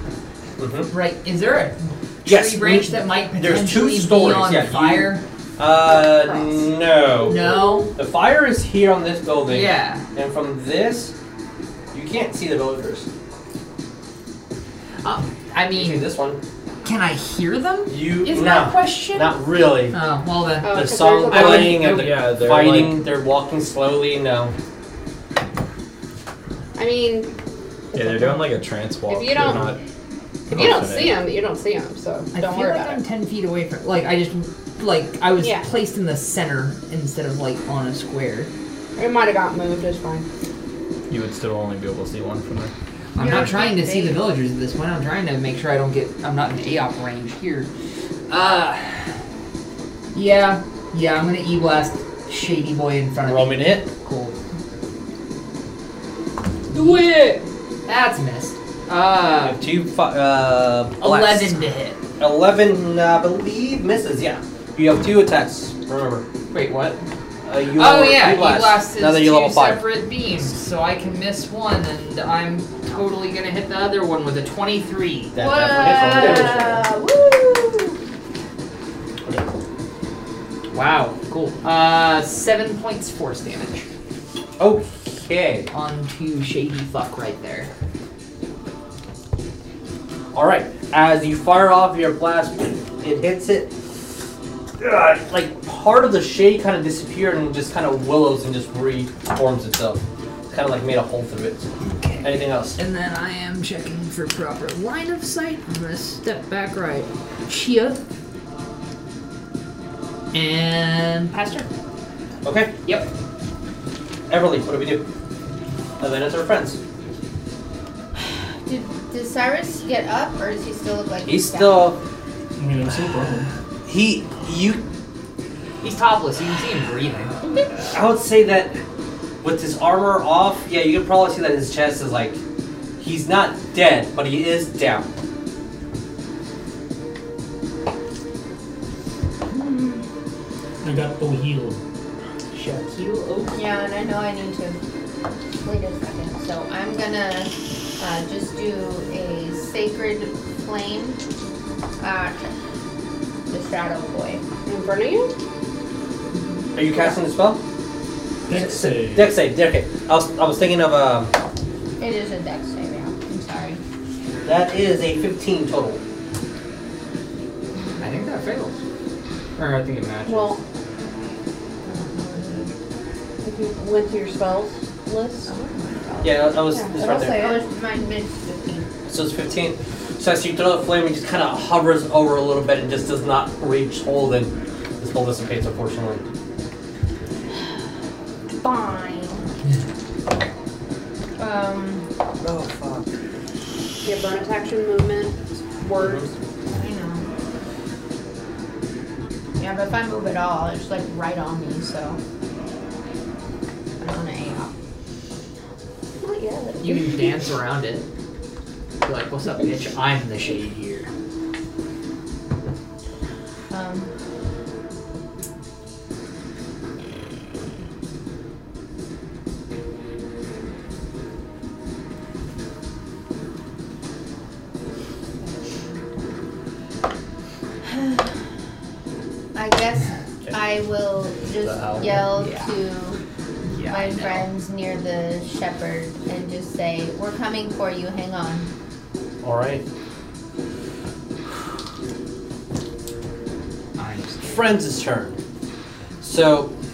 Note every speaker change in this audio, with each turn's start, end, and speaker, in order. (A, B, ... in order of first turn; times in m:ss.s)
0:00.6-0:00.9 A
0:00.9-0:05.2 B
0:02.2-0:11.1 A
0:06.2-0:06.6 C
0:07.2-0:07.9 B
0:07.4-0:07.9 C
0:09.5-0:10.0 B
0:11.9-0:13.0 A
0:15.0-0:16.1 B
0:15.7-0:16.4 A
0:16.8-0:19.4 B
0:17.9-0:20.0 A
0:19.9-0:22.0 B
0:20.6-0:21.8 C
0:20.7-0:24.5 A
0:21.7-0:23.0 D
0:26.8-0:27.3 C
0:27.9-0:29.7 C
0:27.9-0:29.8 D
0:30.5-0:31.2 D
0:30.5-0:33.0 C
0:32.3-0:38.5 B
0:35.4-0:35.6 C
0:39.0-0:40.2 C
0:41.1-0:42.7 D
0:43.1-0:47.7 B
0:43.2-0:44.3 E
0:48.3-0:49.1 B
0:50.1-0:54.3 B
0:53.2-0:53.8 A
0:56.7-0:59.6 B
0:56.8-0:57.0 C
0:59.4-1:01.5 A
1:01.0-1:02.0 B
1:02.2-1:06.2 A
1:06.5-1:07.0 B
1:07.4-1:09.8 A
1:07.7-1:16.8 B
1:15.3-1:16.8 A
1:15.4-1:17.8 C
1:16.2-1:16.7 E
1:20.7-1:23.8 B
1:24.6-1:25.7 A
1:25.7-1:27.7 B
1:30.3-1:33.7 A
1:34.8-1:42.8 A
1:41.8-1:48.0 B
1:50.3-1:51.7 B
1:52.4-1:52.7 A
1:54.3-1:55.0 A
1:56.0-1:56.8 A
1:58.6-2:01.9 E
2:01.2-2:02.0 A
2:02.6-2:03.5 F
2:03.8-2:04.8 A
2:05.8-2:07.3 B
2:07.9-2:08.8 A
2:09.4-2:12.4 A
2:13.0-2:15.1 A
2:19.5-2:20.0 B
2:20.8-2:21.8 F
2:22.5-2:23.7 B
2:23.5-2:24.8 E
2:25.6-2:31.2 E
2:32.0-2:32.5 E
2:33.5-2:34.4 E
2:34.6-2:35.3 C
2:36.7-2:37.6 A
2:38.5-2:39.3 F
2:38.5-2:41.3 A
2:42.0-2:43.8 E
2:44.4-2:46.0 A
2:48.0-2:48.8 B
2:49.6-2:50.6 B
2:50.2-2:50.6 C
2:51.8-2:52.7 E
2:53.4-2:55.5 C
2:55.5-2:58.9 E
2:56.2-2:57.6 A
2:59.1-3:06.2 A
3:08.6-3:09.5 E
3:11.4-3:12.0 E
3:12.4-3:13.1 A
3:14.0-3:16.3 C
3:16.0-3:16.2 A
3:16.7-3:17.3 E
3:19.6-3:22.2 E
3:24.0-3:24.7 E
3:26.2-3:27.1 C
3:26.8-3:28.0 B
3:29.0-3:31.1 B
3:33.7-3:34.1 E
3:47.9-3:48.2 E
3:49.5-3:53.2 E
3:51.6-3:52.0 A
3:52.2-3:52.7 B
3:53.6-3:54.5 B
3:53.9-3:58.7 E
3:59.4-3:59.8 A
4:04.0-4:04.6 B
4:04.4-4:05.4 A
4:06.2-4:06.7 A